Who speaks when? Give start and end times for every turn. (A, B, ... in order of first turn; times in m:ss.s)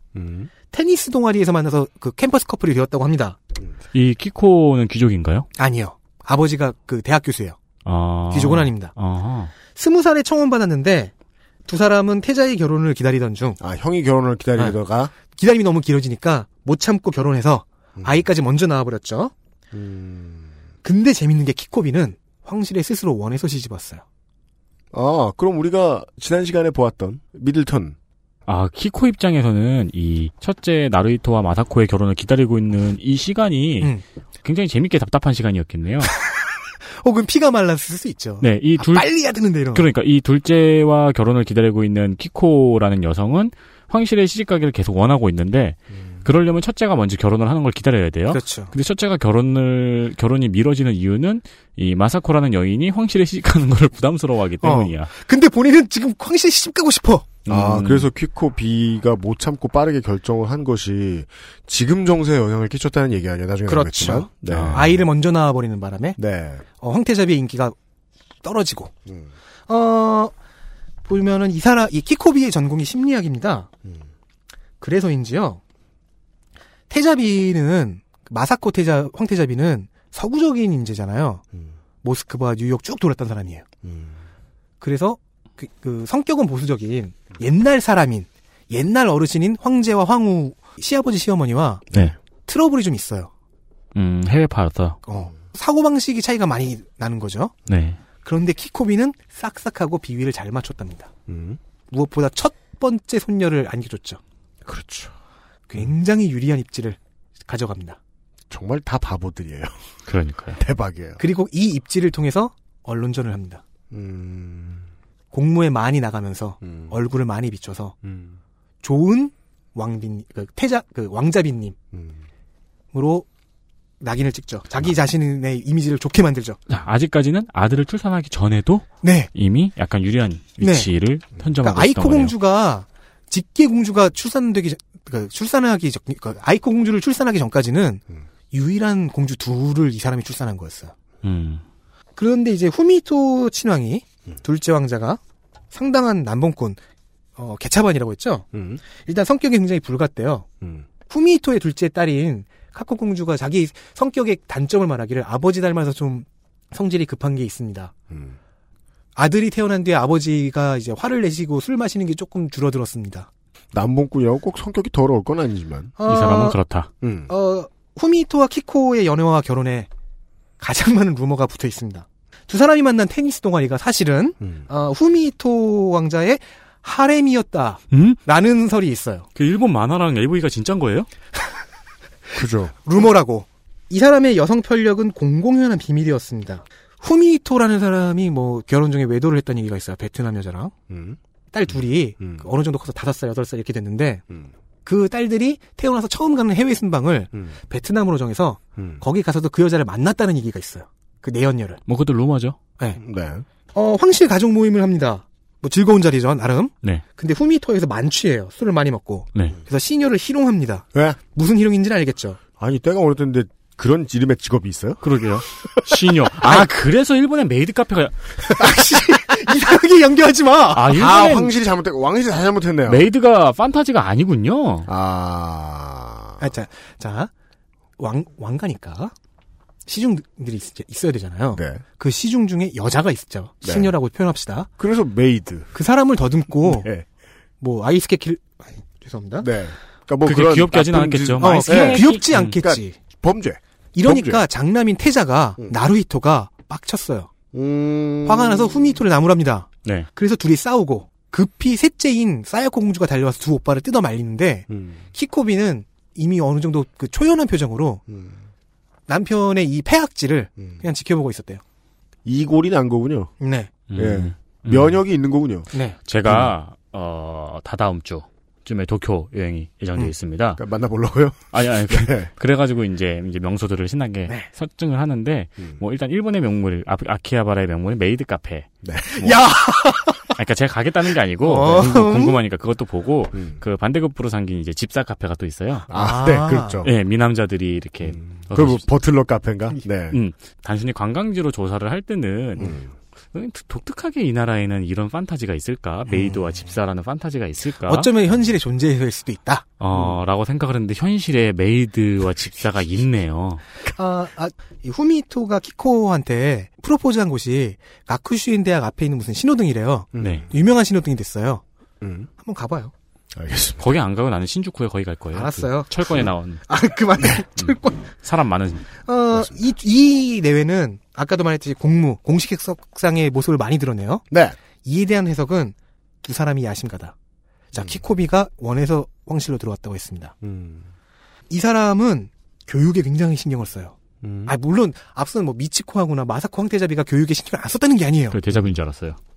0:00.1-0:00.5 A
0:00.7-0:03.4 B
0:03.9-0:05.5 C
0:05.6-0:07.6 B
0:07.8-0:09.5 C
0:08.3-0:08.9 B
0:09.7-0:11.1 B
0:11.7-0:13.6 B
0:13.6-0:15.1 A
0:15.3-0:19.3 B
0:18.0-0:18.2 A
0:19.7-0:20.5 A
0:20.8-0:24.0 B
0:24.9-0:28.0 A
0:28.5-0:33.9 C
0:34.4-0:36.1 C
0:37.0-0:39.8 B
0:38.4-0:39.1 C
0:39.7-0:55.1 C
0:48.3-0:48.7 B
0:54.6-0:57.3 B
0:57.4-0:58.1 C
0:57.5-1:05.0 A
1:03.7-1:06.2 B
1:04.5-1:04.9 C
1:06.2-1:06.6 A
1:06.8-1:07.7 B
1:08.4-1:08.9 B
1:09.7-1:10.3 B
1:11.1-1:13.7 B
1:14.8-1:15.6 B
1:16.9-1:21.4 B
1:22.0-1:23.6 B
1:23.8-1:24.2 A
1:24.8-1:31.9 B
1:31.9-1:32.2 A
1:32.4-1:33.3 B
1:33.9-1:35.0 C
1:35.0-1:37.5 B
1:37.7-1:38.0 C
1:38.2-1:41.1 B
1:41.3-1:41.6 A
1:41.9-1:44.2 B
1:44.7-1:45.1 A
1:45.7-1:48.0 B
1:48.5-1:49.7 A
1:50.1-1:50.6 C
1:50.6-1:51.2 A
1:51.2-1:53.6 B
1:53.9-1:54.8 A
1:55.3-1:57.9 B
1:56.6-1:56.9 A
1:58.0-1:58.4 A
1:58.8-2:01.8 B
2:01.9-2:02.2 A
2:02.9-2:03.2 B
2:04.0-2:06.6 B
2:06.7-2:12.3 C
2:09.0-2:09.3 B
2:10.6-2:10.9 B
2:11.6-2:20.9 B
2:21.2-2:21.6 C
2:22.2-2:25.2 B
2:25.7-2:26.8 B
2:27.4-2:30.4 B
2:28.5-2:28.8 A
2:31.1-2:37.9 B
2:38.1-2:38.4 A
2:39.2-2:43.3 B
2:43.7-2:45.9 A
2:46.0-2:46.6 B
2:46.0-2:46.9 C
2:47.0-2:47.3 A
2:47.3-2:49.9 B
2:50.6-2:59.3 B
2:57.9-2:58.2 C
2:59.4-3:01.1 C
3:02.3-3:02.8 A
3:02.8-3:10.7 B
3:10.9-3:11.2 A
3:11.5-3:14.2 B
3:12.2-3:12.4 A
3:14.8-3:21.8 B
3:18.8-3:19.0 A
3:21.9-3:22.6 C
3:23.0-3:23.4 A
3:23.7-3:32.4 B
3:32.6-3:35.1 A
3:35.0-3:38.2 C
3:38.5-3:40.9 B
3:40.7-3:41.5 C
3:40.9-3:43.1 A
3:42.9-3:44.9 C
3:44.9-3:46.4 A
3:46.4-3:47.3 B
3:48.0-3:49.1 B
3:49.9-3:54.7 B
3:51.5-3:51.8 A
3:53.6-3:53.9 A
3:54.8-3:55.7 A
3:55.7-3:56.9 B
3:56.6-3:57.0 A
3:57.6-3:59.5 B
3:59.4-4:04.4 A
4:00.2-4:02.5 C
4:01.4-4:03.0 B
4:03.9-4:07.3 B
4:07.5-4:09.0 A
4:08.2-4:18.0 B
4:14.7-4:15.0 A
4:18.1-4:18.4 A
4:19.1-4:21.6 B
4:22.2-4:23.3 A
4:23.4-4:23.7 B
4:23.9-4:25.0 C
4:23.9-4:25.7 A
4:26.1-4:30.6 C
4:26.2-4:26.5 A
4:30.6-4:32.3 A
4:31.5-4:38.7 C
4:38.8-4:39.2 A
4:39.1-4:40.3 B
4:40.4-4:45.9 C
4:41.4-4:42.3 B
4:45.9-4:46.8 B
4:45.9-4:46.9 A
4:46.8-4:48.8 C
4:48.0-4:50.2 A
4:50.1-4:52.8 C
4:52.6-4:52.9 A
4:53.3-4:58.1 C
4:57.9-4:59.7 B
4:59.8-5:03.6 C
5:03.8-5:11.6 B
5:10.1-5:10.5 A
5:10.2-5:10.4 C
5:12.0-5:12.3 A
5:12.4-5:12.9 B
5:13.3-5:13.8 A
5:13.8-5:16.6 C
5:15.3-5:15.9 B
5:16.7-5:18.1 B
5:17.6-5:18.9 C
5:19.0-5:24.2 B
5:24.3-5:24.6 A
5:24.8-5:27.1 B
5:27.7-5:30.3 B
5:30.4-5:30.9 A
5:31.5-5:38.4 B
5:34.2-5:34.5 A
5:38.3-5:39.2 C